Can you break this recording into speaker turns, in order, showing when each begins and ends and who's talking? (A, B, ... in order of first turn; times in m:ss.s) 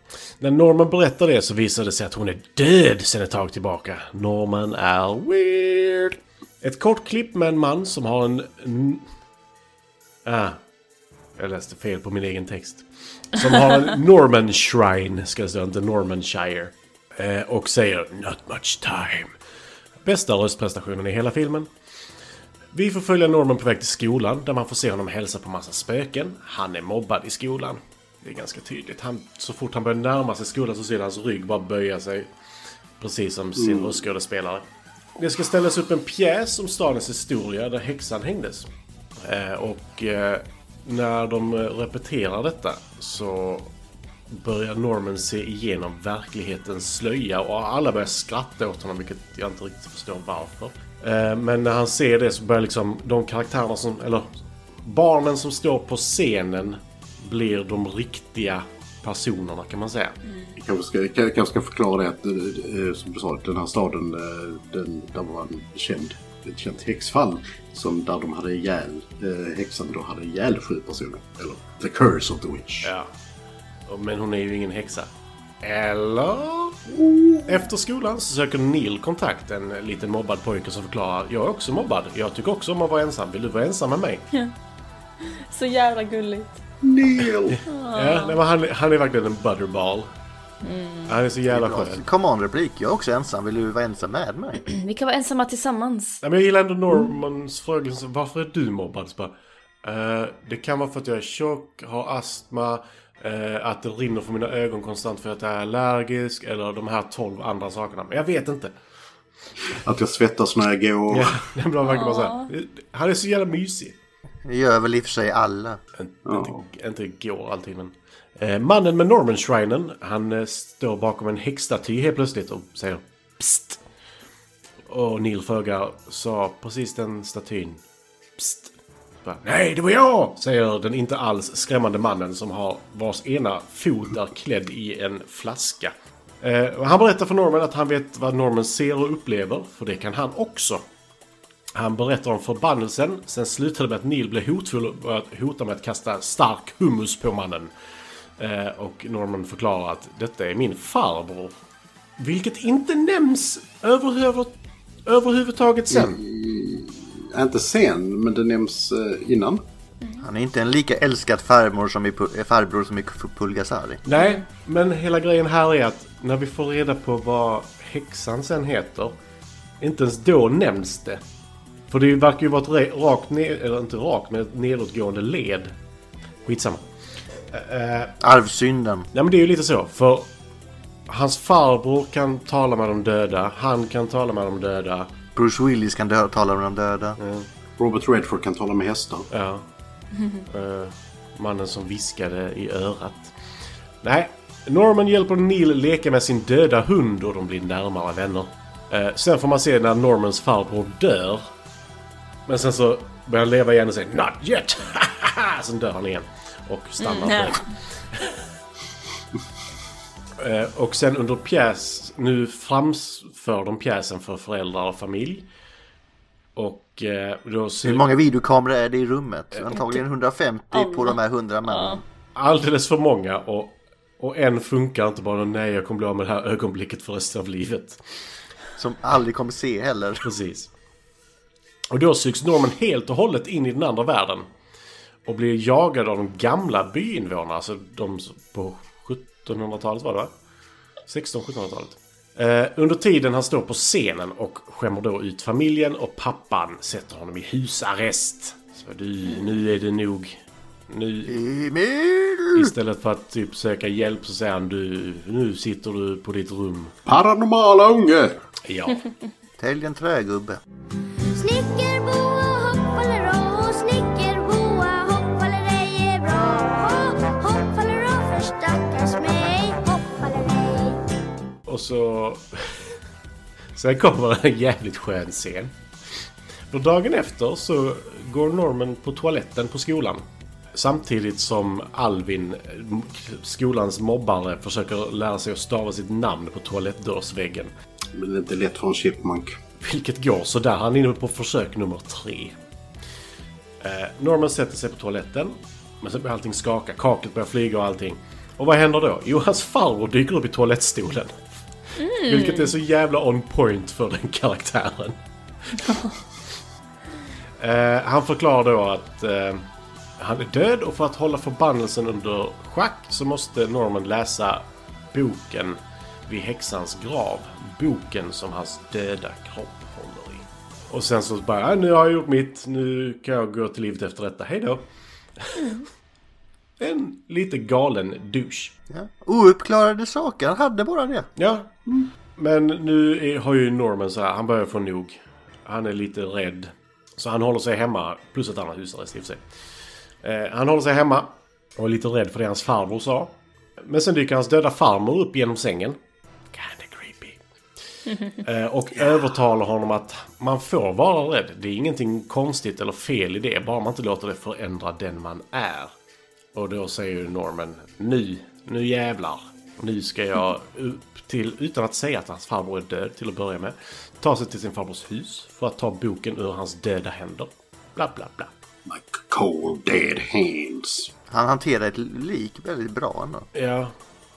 0:00.4-0:09.0 A
0:10.2-0:10.6 A
0:11.4-0:19.3 A
0:20.0-0:21.7 A
0:22.7-0:32.3 A
0:33.0-0:38.7 A
0:33.6-0:34.0 B
0:39.2-0:43.7 A
0:44.3-0:54.3 A
0:54.8-1:00.2 A
1:00.2-1:00.6 C
1:00.6-1:12.9 B
1:12.8-1:13.1 A
1:13.9-1:15.1 A
1:15.6-1:16.8 A
1:16.9-1:17.6 B
1:17.4-1:24.3 A
1:25.2-1:26.6 C
1:26.8-1:27.6 B
1:27.5-1:30.1 A
1:27.6-1:28.4 C
1:30.6-1:31.2 C
1:31.1-1:32.0 A
1:31.5-1:34.6 D
1:34.6-1:36.2 C
1:36.2-1:48.7 A
1:49.6-1:51.4 B
1:51.1-1:54.0 A
1:51.8-1:52.5 C
1:54.4-1:55.8 D
1:56.0-2:03.8 A
1:56.2-1:56.6 B
2:04.9-2:07.8 A
2:08.4-2:08.7 A
2:09.2-2:20.8 A
2:21.7-2:27.7 A
2:28.4-2:31.5 A
2:32.2-2:34.5 A
2:35.0-2:36.2 A
2:35.9-2:39.6 B
2:40.2-2:44.0 D
2:44.0-2:49.2 A
2:44.2-2:44.4 C
2:49.8-2:51.2 A
2:51.9-2:55.7 A
2:56.4-2:56.8 A
2:57.5-2:58.1 A
2:58.2-2:59.1 D
2:59.1-3:00.3 A
3:01.1-3:05.1 A
3:05.4-3:07.2 D
3:07.2-3:07.5 A
3:07.8-3:09.3 B
3:09.3-3:09.6 A
3:10.2-3:10.4 C
3:10.5-3:13.4 A
3:14.0-3:21.5 A
3:22.5-3:27.6 A
3:27.0-3:27.6 C
3:30.4-3:35.5 A
3:36.6-3:38.1 A
3:37.8-3:42.0 D
3:39.7-3:40.0 C
3:40.7-3:42.0 C
3:42.4-3:48.0 A
3:48.8-3:50.2 D
3:50.2-3:50.7 A
3:51.9-3:54.4 A
3:55.3-4:00.3 A
4:01.1-4:10.4 A
4:10.9-4:11.4 A
4:11.3-4:12.7 D
4:12.5-4:16.9 A
4:17.0-4:18.4 B
4:18.6-4:19.0 A
4:19.6-4:20.6 D
4:21.3-4:31.0 E
4:31.6-4:32.9 A
4:33.7-4:35.7 A
4:36.7-4:40.2 A
4:40.7-4:47.7 A
4:48.1-4:49.6 B
4:49.8-4:52.6 A
4:53.8-5:01.4 A
5:02.0-5:02.7 C
5:02.2-5:05.2 A
5:05.8-5:06.1 C
5:07.6-5:09.6 A
5:10.2-5:24.8 A
5:25.4-5:25.8 A
5:26.8-5:28.7 A
5:28.9-5:31.3 D
5:31.4-5:31.7 A
5:32.4-5:39.4 A
5:40.2-5:43.3 A
5:43.8-5:46.0 A
5:46.5-5:47.4 A
5:48.3-5:55.9 A
5:56.5-6:08.5 A
6:08.9-6:11.1 B
6:11.3-6:13.5 D
6:13.5-6:13.9 A